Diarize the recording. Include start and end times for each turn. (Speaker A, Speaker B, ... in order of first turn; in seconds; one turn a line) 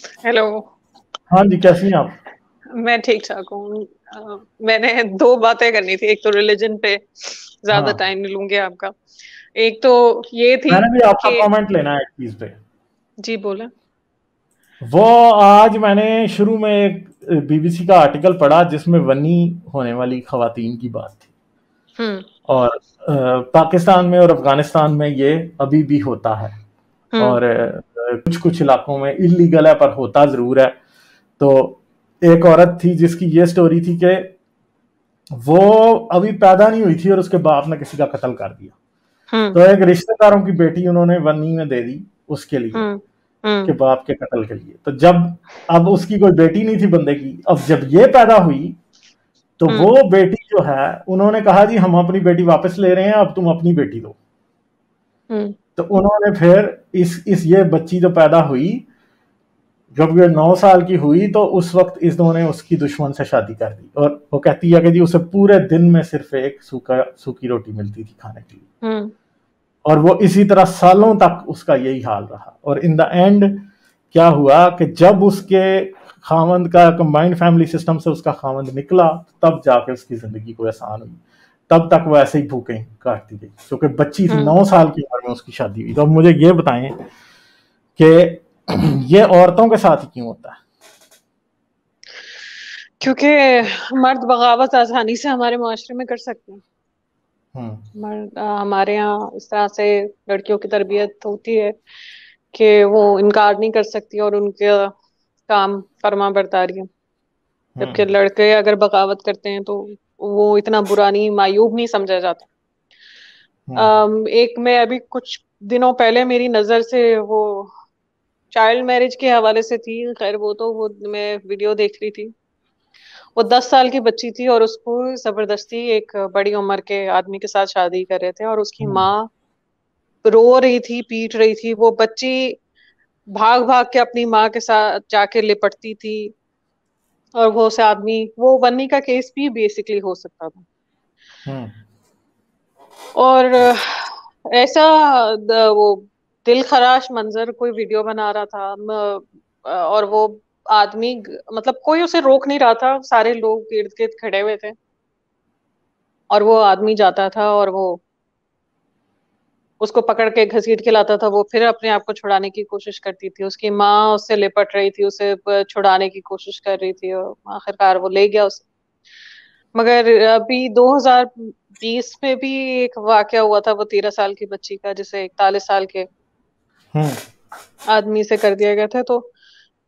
Speaker A: 0.2-0.7
Speaker B: 1.3-2.2
Speaker A: 2.8-8.9
Speaker B: 7.7-8.0
Speaker A: 9.6-11.5
Speaker B: 10.7-12.5
Speaker A: 13.2-13.7
Speaker B: 14.8-21.2
Speaker A: 22.0-22.3
Speaker B: 22.5-26.5
Speaker A: 27.1-27.4
Speaker B: 27.2-30.8
Speaker B: 31.4-34.3
Speaker B: 35.4-38.7
Speaker A: 39.3-39.6
Speaker B: 39.5-42.9
Speaker A: 42.7-43.7
Speaker B: 43.6-48.8
Speaker B: 49.6-54.2
Speaker A: 55.3-55.5
Speaker B: 55.8-58.8
Speaker B: 59.9-68.6
Speaker A: 68.8-69.1
Speaker B: 69.8-87.0
Speaker A: 84.3-84.5
Speaker B: 88.0-90.6
Speaker A: 93.0-96.6
Speaker B: 97.5-97.8
Speaker A: 98.0-101.8
Speaker A: 102.5-104.9
Speaker A: 105.5-106.8
Speaker B: 107.8-108.0
Speaker A: 107.8-112.5
Speaker B: 113.7-113.9
Speaker A: 113.8-117.7
Speaker A: 118.5-122.3
Speaker A: 123.3-129.3
Speaker B: 128.8-129.1
Speaker A: 130.2-132.6
Speaker A: 133.3-136.3
Speaker A: 137.4-140.6
Speaker B: 141.4-141.7
Speaker A: 143.2-154.7
Speaker A: 156.3-158.0
Speaker A: 159.8-168.7
Speaker A: 169.7-176.1
Speaker A: 177.9-179.3